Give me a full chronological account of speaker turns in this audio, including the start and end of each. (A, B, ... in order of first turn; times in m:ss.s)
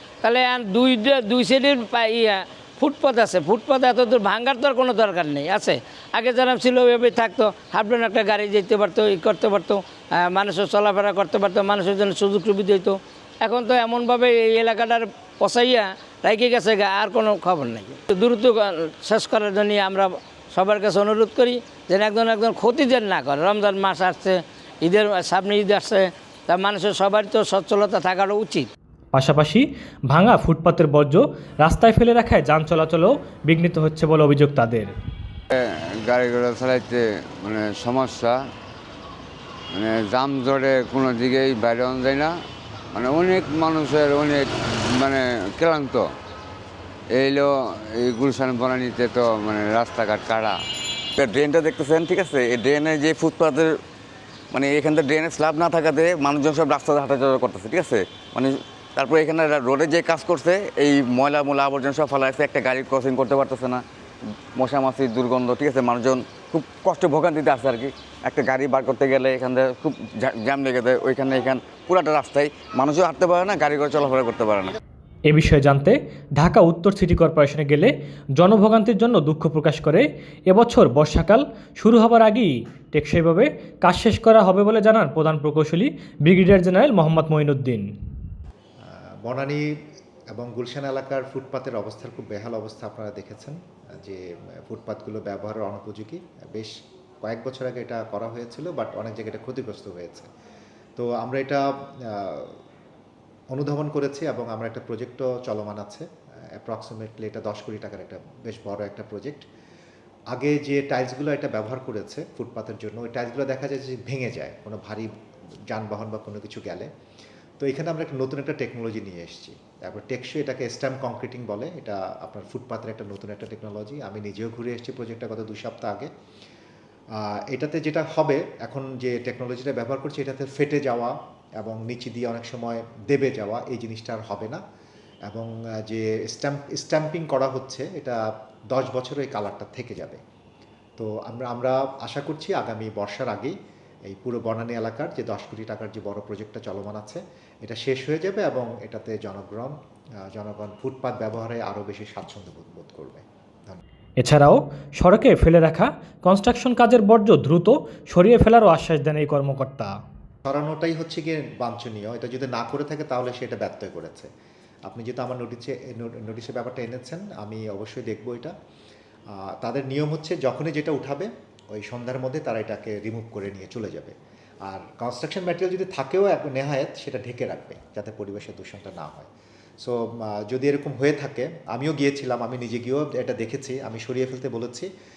0:00.2-0:28.7 A
0:29.1-0:34.9 B
0:35.5-0:38.4 C
0:39.8-0:42.3 C
0:42.9-0:46.1 C
0:47.1-0:50.6 C
0:51.2-0:53.7 D
0:51.2-0:51.6 C
0:54.5-1:03.8 D
1:04.6-1:14.8 D
1:15.3-1:27.9 B
1:28.9-1:29.7 E
1:30.3-1:36.7 E
1:37.2-1:40.3 E
1:41.0-1:42.6 E
1:43.5-1:46.1 E
1:46.6-1:49.4 E
1:50.3-1:55.1 E
1:55.7-1:56.9 E
1:57.6-2:06.1 E
2:07.2-2:14.6 E
2:15.3-2:20.2 E
2:21.0-2:23.6 E
2:24.1-2:29.8 E
2:30.3-2:33.8 E
2:34.2-2:39.9 B
2:40.5-2:44.3 E
2:44.9-2:48.5 E
2:49.4-2:54.1 E
2:54.7-2:59.3 E
2:59.8-3:04.9 E